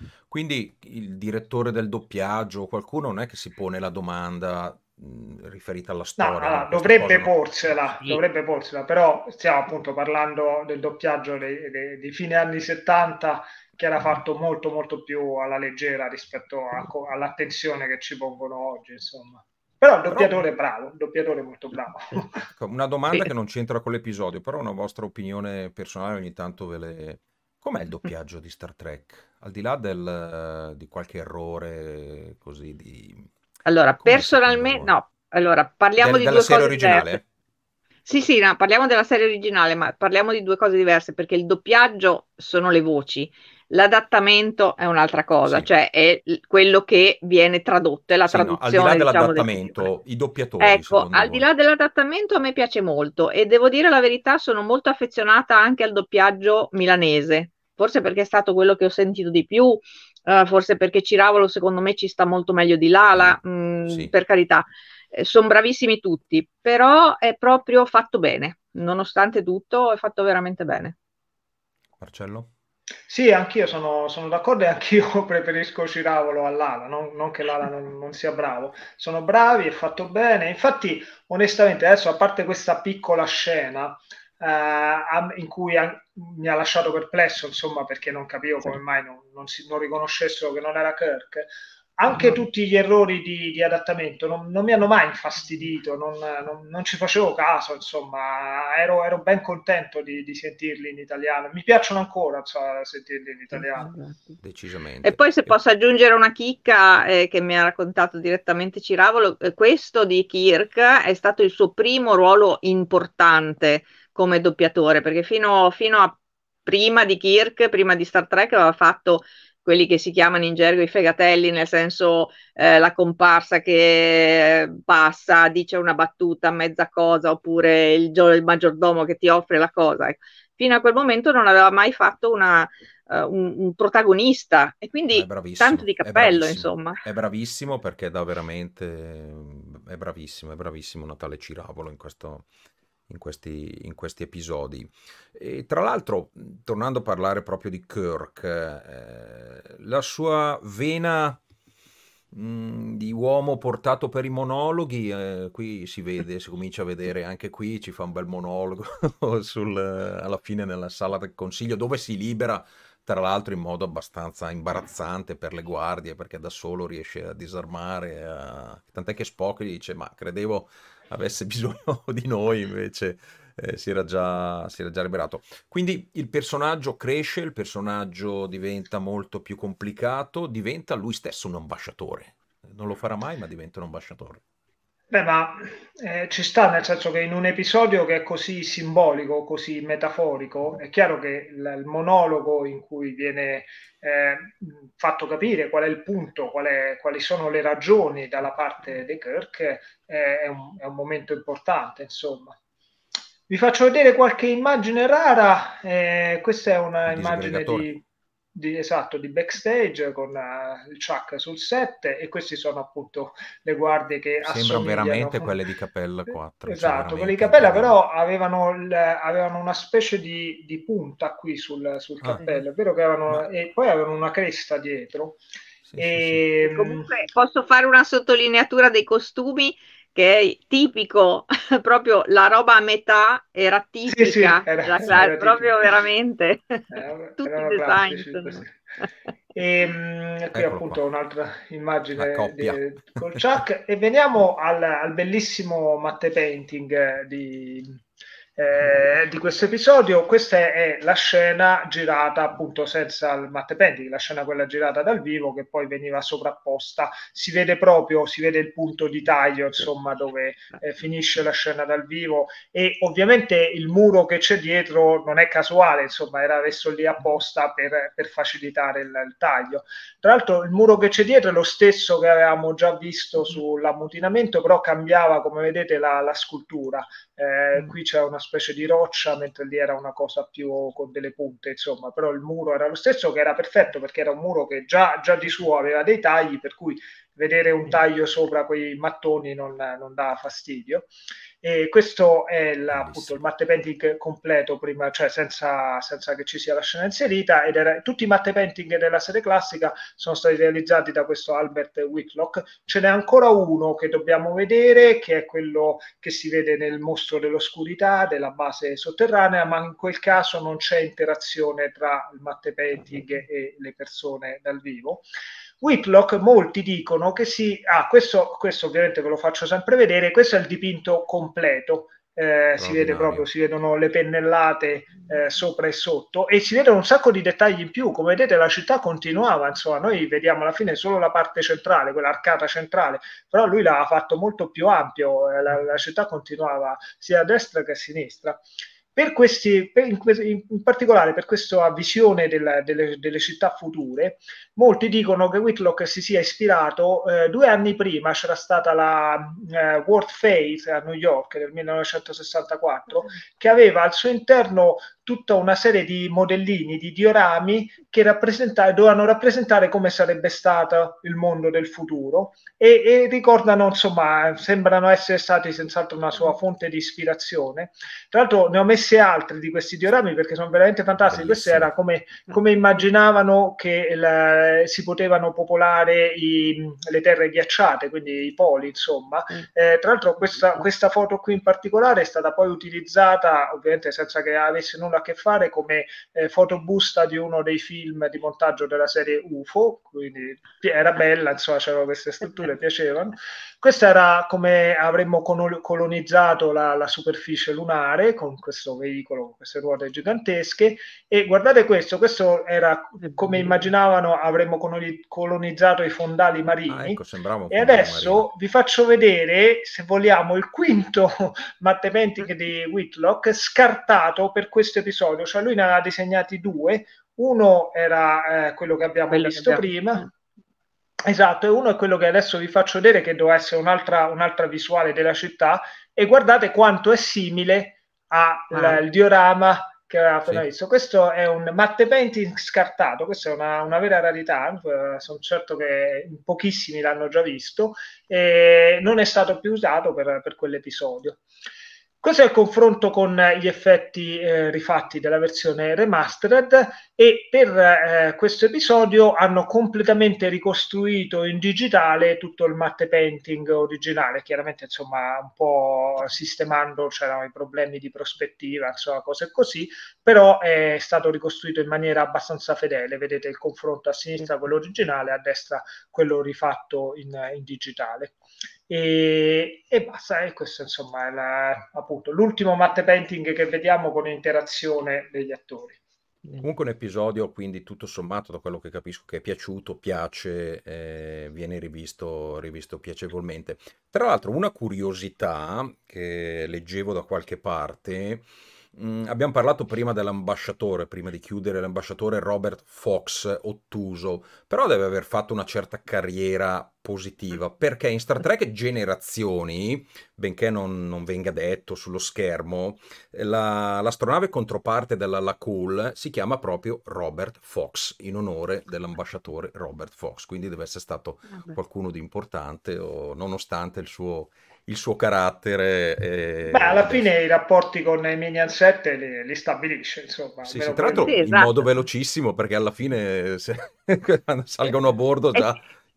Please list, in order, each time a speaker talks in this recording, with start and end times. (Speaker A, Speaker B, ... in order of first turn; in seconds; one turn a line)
Speaker A: 0.3-7.3
Speaker B: 6.2-22.4
Speaker C: 7.9-8.2
Speaker A: 20.1-20.4
Speaker A: 22.6-33.3
Speaker C: 33.6-37.2
Speaker A: 34.0-35.0
Speaker A: 36.0-37.2
Speaker C: 38.0-49.9
Speaker A: 48.3-51.5
Speaker C: 50.6-70.9
Speaker A: 63.1-64.1
Speaker A: 72.0-72.5
Speaker B: 73.1-103.9
Speaker C: 103.5-104.4
Speaker A: 104.4-105.5
Speaker C: 105.0-137.0
Speaker A: 135.1-142.5
Speaker A: 143.1-151.4
Speaker A: 152.3-184.4
Speaker B: 185.1-202.5
Speaker B: 203.5-208.0
Speaker A: 207.1-207.9
Speaker B: 208.5-215.6
Speaker A: 214.4-218.0
Speaker B: 216.7-225.4
Speaker A: 225.8-226.4
Speaker B: 226.0-227.1
Speaker C: 226.6-238.6
Speaker B: 234.1-235.8
Speaker B: 236.9-238.7
Speaker B: 239.5-248.0
Speaker A: 240.5-241.0
Speaker A: 242.2-243.6
Speaker B: 248.6-291.1
Speaker B: 291.6-315.3
Speaker A: 292.9-293.4
Speaker B: 315.8-338.6
Speaker A: 322.8-323.4
Speaker B: 339.1-420.2
Speaker A: 371.2-371.9
Speaker A: 406.9-408.5
Speaker C: 419.3-420.3
Speaker B: 421.2-441.4
Speaker C: 428.7-429.0
Speaker B: 442.2-468.4
Speaker B: 468.9-476.0
Speaker A: 476.6-517.3
Speaker B: 516.7-521.4
Speaker A: 520.6-525.9
Speaker C: 521.1-521.7